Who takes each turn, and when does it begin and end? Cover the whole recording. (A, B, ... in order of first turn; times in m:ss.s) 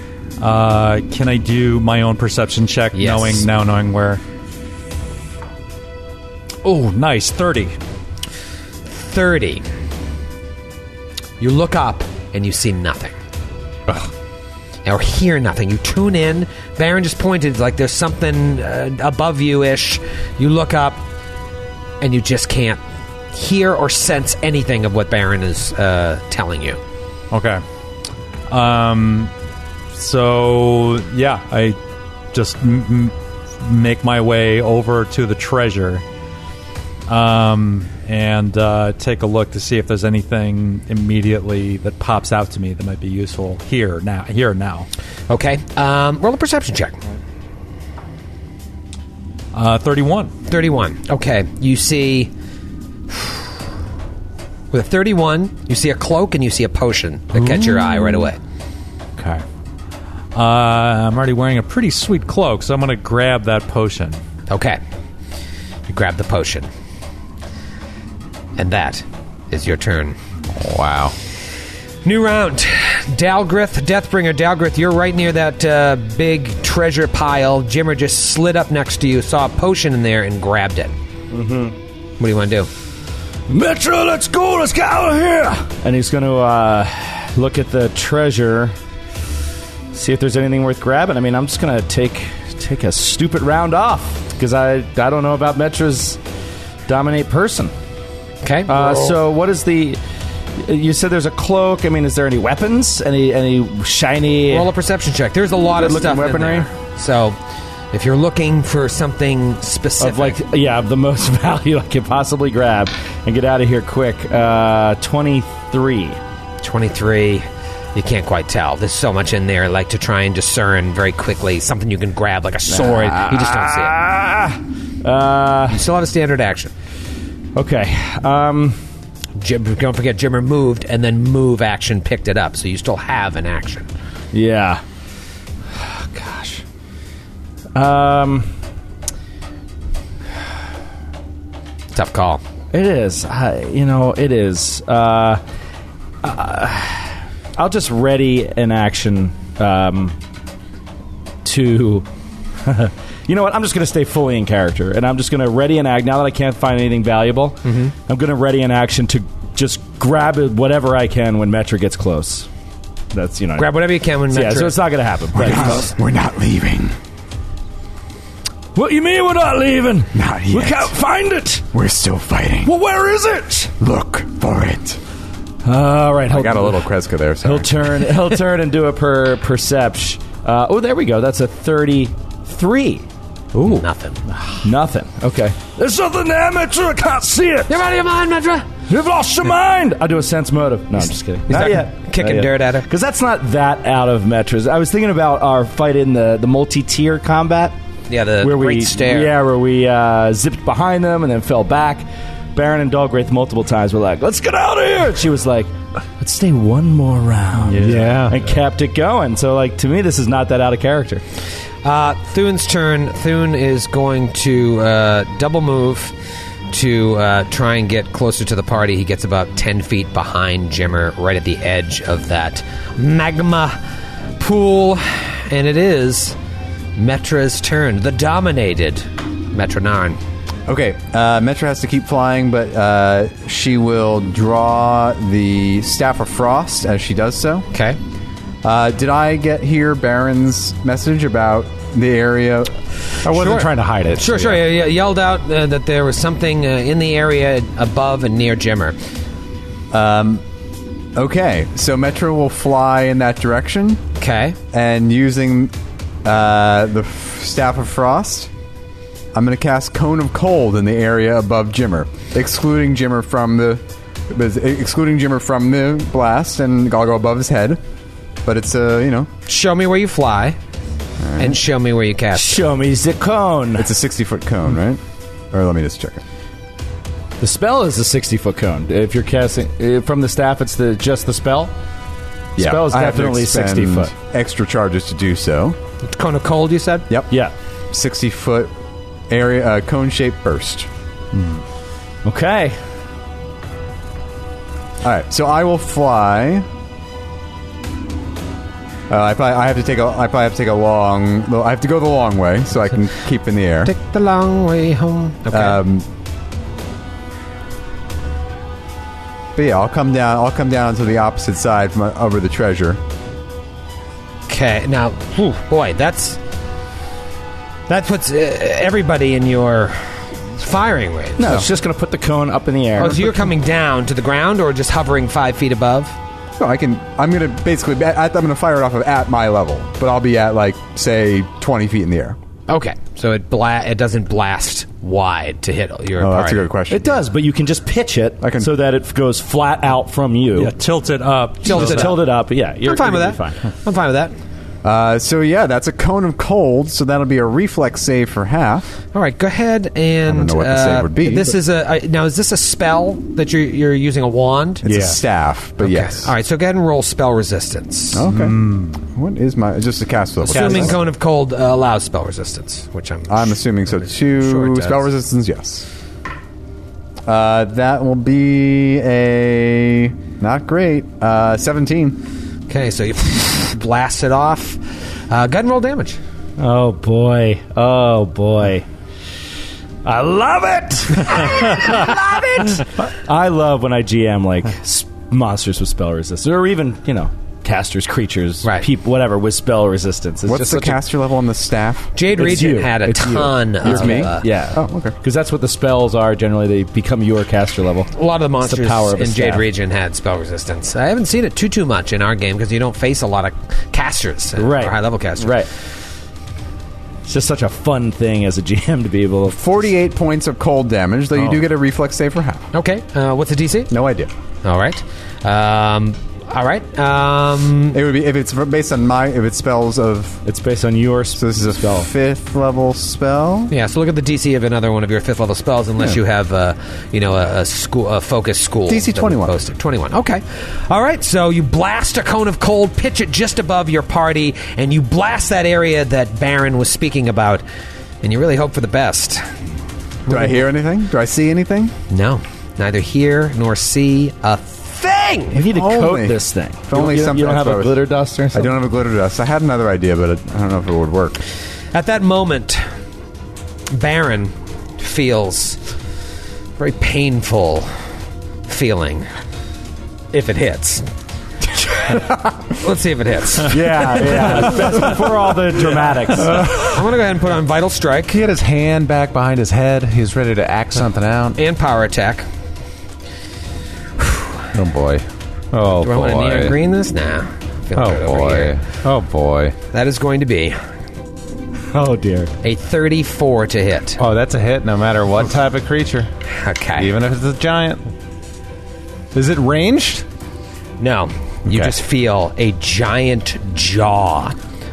0:00.4-0:04.2 A
0:02.9-0:03.5 B
0:06.6-0:07.8 A
0:08.9-0:09.6 B
0:11.4-0:13.1 B
0:14.8-0:21.0 B
0:22.0-0:22.8 B
0:23.3-0:26.8 B
0:27.3-0:27.6 A
0:28.5-0:29.3 A
0:30.0-0:31.8 A
0:32.3-0:36.0 A
0:37.1-0:44.9 A
0:45.3-0:47.0 B
0:49.5-0:50.3 A
0:50.5-0:52.3 B
0:53.1-0:53.4 B
0:54.7-0:58.4 B
0:57.4-0:58.3 A
0:59.2-0:59.4 A
1:00.4-1:04.2 A
1:04.5-1:04.8 B
1:05.9-1:06.7 B
1:08.6-1:10.2 B
1:10.5-1:11.2 C
1:12.0-1:20.9 B
1:21.3-1:21.8 D
1:22.2-1:22.7 B
1:23.5-1:28.8 D
1:29.9-1:36.2 D
1:36.9-1:37.7 D
1:38.4-1:39.2 B
1:38.7-1:40.0 D
1:40.6-1:44.7 D
1:44.5-1:47.4 B
1:45.8-1:46.6 E
1:45.9-1:46.3 D
1:47.9-1:50.4 B
1:50.0-1:56.2 D
1:56.6-2:04.0 B
2:02.7-2:05.8 D
2:05.7-2:06.7 B
2:07.6-2:08.8 D
2:09.4-2:13.9 B
2:14.3-2:14.8 D
2:15.7-2:16.6 D
2:17.8-2:18.5 D
2:21.9-2:22.4 B
2:22.7-2:25.4 D
2:26.2-2:30.2 D
2:31.4-2:32.1 D
2:32.6-2:42.5 D
2:37.6-2:37.9 B
2:43.1-2:45.9 D
2:43.6-2:44.8 B
2:45.4-2:47.0 E
2:45.4-2:45.8 B
2:48.8-2:51.6 D
2:50.1-2:50.9 E
2:51.7-2:52.7 E
2:52.6-2:53.7 D
2:53.8-2:55.0 E
2:55.6-2:56.9 D
2:56.3-2:58.0 E
2:57.4-3:03.8 D
3:03.6-3:04.2 B
3:04.6-3:07.8 D
3:07.7-3:08.7 B
3:08.9-3:17.8 D
3:11.5-3:12.9 B
3:18.1-3:19.3 B
3:18.4-3:31.2 D
3:27.6-3:28.5 A
3:27.8-3:28.4 C
3:31.8-3:36.1 B
3:36.7-3:43.8 B
3:44.4-3:46.4 B
3:47.0-3:50.2 B
3:50.7-3:57.7 E
3:57.7-3:58.0 B
3:58.6-4:02.7 E
4:03.2-4:04.6 C
4:03.3-4:09.0 B
4:09.9-4:10.4 E
4:11.2-4:14.0 E
4:14.2-4:14.6 B
4:14.7-4:15.7 E
4:16.2-4:18.5 E
4:19.3-4:27.8 E
4:28.4-4:29.3 E
4:29.5-4:30.6 B
4:31.2-4:31.6 E
4:31.4-4:32.7 B
4:32.3-4:33.9 D
4:33.8-4:35.0 E
4:35.5-4:36.2 E
4:37.4-4:41.7 D
4:42.6-4:44.1 D
4:42.6-4:45.8 E
4:46.0-4:47.1 B
4:47.9-4:48.7 E
4:49.3-4:50.9 E
4:52.2-4:52.8 D
4:55.0-4:56.7 E
4:59.1-5:03.9 E
5:03.8-5:05.8 B
5:05.5-5:06.1 E
5:09.6-5:13.0 E
5:14.5-5:16.4 B
5:17.9-5:21.5 B
5:21.4-5:23.4 D
5:21.4-5:21.7 E
5:23.0-5:26.2 B
5:26.6-5:32.4 E
5:32.7-5:36.7 B
5:36.2-5:37.2 E
5:36.9-5:40.7 D
5:38.4-5:38.7 E
5:40.6-5:42.2 A
5:41.6-5:42.3 B
5:41.6-5:43.6 D
5:42.8-5:44.3 B
5:44.8-5:49.0 E
5:49.1-5:54.9 B
5:50.3-5:51.6 E
5:54.8-5:56.3 E
5:55.8-5:58.3 B
5:58.1-6:01.0 E
5:58.3-5:58.9 A
6:00.4-6:05.1 B
6:00.5-6:00.9 A
6:03.3-6:05.9 E
6:07.3-6:12.2 E
6:12.7-6:16.2 B
6:16.6-6:18.9 D
6:20.0-6:31.0 D
6:22.1-6:22.4 B
6:30.5-6:32.1 E
6:32.2-6:34.5 B
6:32.3-6:39.6 D
6:33.8-6:35.2 E
6:38.1-6:45.6 B
6:44.6-6:45.7 D
6:47.3-6:49.6 D
6:49.5-6:52.7 E
6:52.7-6:53.9 B
6:53.9-6:54.3 E
6:54.6-6:58.0 B
6:57.9-7:00.4 E
7:00.4-7:02.1 D
7:01.4-7:03.7 E
7:03.7-7:17.6 B
7:08.9-7:09.6 E
7:18.2-7:19.5 B
7:20.3-7:20.6 B
7:20.3-7:21.9 E
7:22.1-7:25.6 B
7:25.5-7:28.8 D
7:25.7-7:31.4 E
7:31.9-7:32.8 B
7:33.9-7:35.8 B
7:36.8-7:37.9 B
7:38.7-7:39.3 B
7:40.3-7:41.1 B
7:42.7-7:43.8 B
7:43.7-7:46.7 D
7:46.4-7:47.1 C
7:46.8-7:48.4 B
7:48.3-7:51.6 C
7:51.6-7:52.5 B
7:54.7-7:56.8 C
7:56.0-7:58.8 B
7:58.0-7:59.8 C
7:59.9-8:00.8 B
8:01.9-8:02.5 D
8:02.6-8:04.2 B
8:04.2-8:06.3 C
8:06.5-8:07.1 B
8:07.0-8:08.0 C
8:09.3-8:10.2 C
8:11.0-8:14.6 B
8:11.7-8:12.0 C